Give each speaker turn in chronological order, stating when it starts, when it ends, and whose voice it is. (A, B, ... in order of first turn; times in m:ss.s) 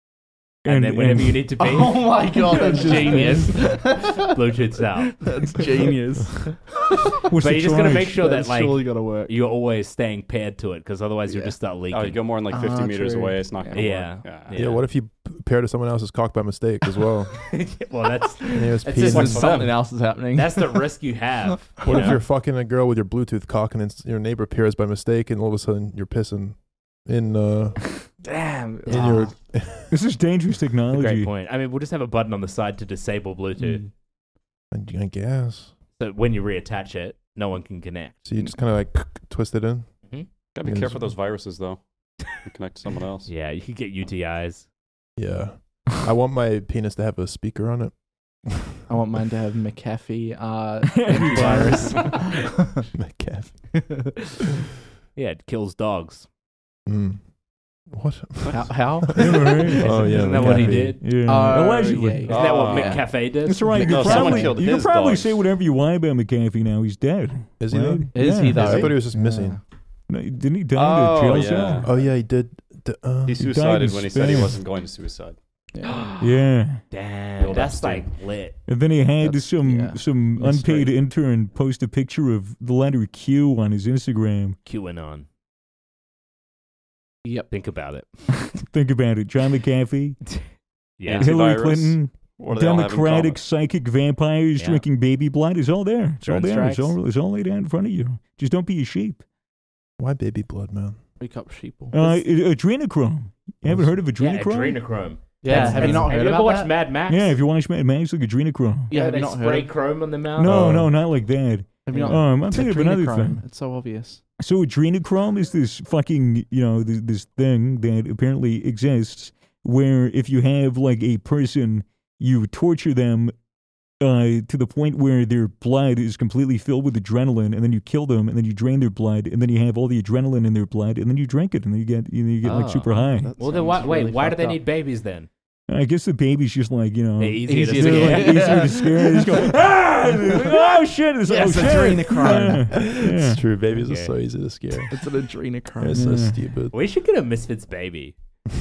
0:00.6-0:01.5 A
0:00.6-0:05.4 B
0:01.6-0:07.1 C
0:07.3-0:08.2 A
0:07.3-0:12.2 B
0:08.1-0:09.3 C
0:11.3-0:11.6 C
0:11.9-0:14.8 D
0:12.5-0:13.9 C
0:13.7-0:14.8 B
0:14.5-0:17.4 E
0:17.5-0:19.6 B
0:18.5-0:19.6 E
0:19.0-0:19.9 D
0:19.0-0:20.9 C
0:20.3-0:22.2 B
0:21.8-0:28.0 E
0:28.2-0:29.4 C
0:28.9-0:29.9 E
0:29.9-0:31.3 A
0:30.9-0:33.8 B
0:33.6-0:33.9 C
0:34.7-0:35.7 E
0:36.0-0:38.2 B
0:38.2-0:39.9 E
0:40.5-0:43.3 D
0:40.6-0:41.1 E
0:43.3-0:44.7 B
0:45.2-0:48.7 E
0:48.9-0:52.8 C
0:50.9-0:51.9 A
0:51.2-0:52.4 B
0:52.9-0:53.8 E
0:55.1-0:56.3 B
0:56.9-0:57.2 E
0:57.9-1:01.0 E
0:58.5-1:04.6 C
0:59.1-1:02.4 A
0:59.8-1:01.1 B
1:01.5-1:05.4 D
1:02.3-1:04.4 B
1:03.4-1:09.0 A
1:07.6-1:09.6 E
1:08.1-1:09.6 C
1:10.1-1:11.9 A
1:10.7-1:11.9 D
1:11.7-1:13.6 E
1:13.3-1:15.4 D
1:13.4-1:14.6 A
1:15.7-1:16.1 C
1:15.8-1:16.2 B
1:16.2-1:16.8 A
1:16.9-1:18.6 B
1:17.4-1:18.2 D
1:18.7-1:24.6 A
1:19.2-1:20.0 C
1:20.4-1:20.9 B
1:24.6-1:25.3 B
1:27.5-1:28.2 B
1:28.6-1:30.3 A
1:31.0-1:31.3 B
1:31.0-1:33.4 D
1:31.1-1:39.2 A
1:34.6-1:34.8 B
1:36.2-1:37.0 B
1:40.0-1:41.0 E
1:41.2-1:42.2 C
1:41.9-1:44.8 A
1:43.6-1:44.0 E
1:44.2-1:47.4 B
1:45.4-1:46.7 C
1:45.4-1:46.1 A
1:47.1-1:48.9 A
1:48.9-1:49.7 C
1:48.9-1:50.7 B
1:50.3-1:53.4 A
1:50.4-1:51.0 E
1:51.9-1:54.2 C
1:54.4-2:03.3 A
2:04.0-2:13.3 A
2:12.4-2:15.3 B
2:12.6-2:14.6 C
2:15.7-2:23.4 A
2:17.2-2:18.8 B
2:17.5-2:19.6 C
2:20.2-2:20.7 C
2:21.2-2:22.8 C
2:22.4-2:25.0 E
2:23.8-2:24.1 B
2:24.9-2:26.1 C
2:25.8-2:26.8 E
2:25.9-2:26.4 A
2:26.7-2:28.1 B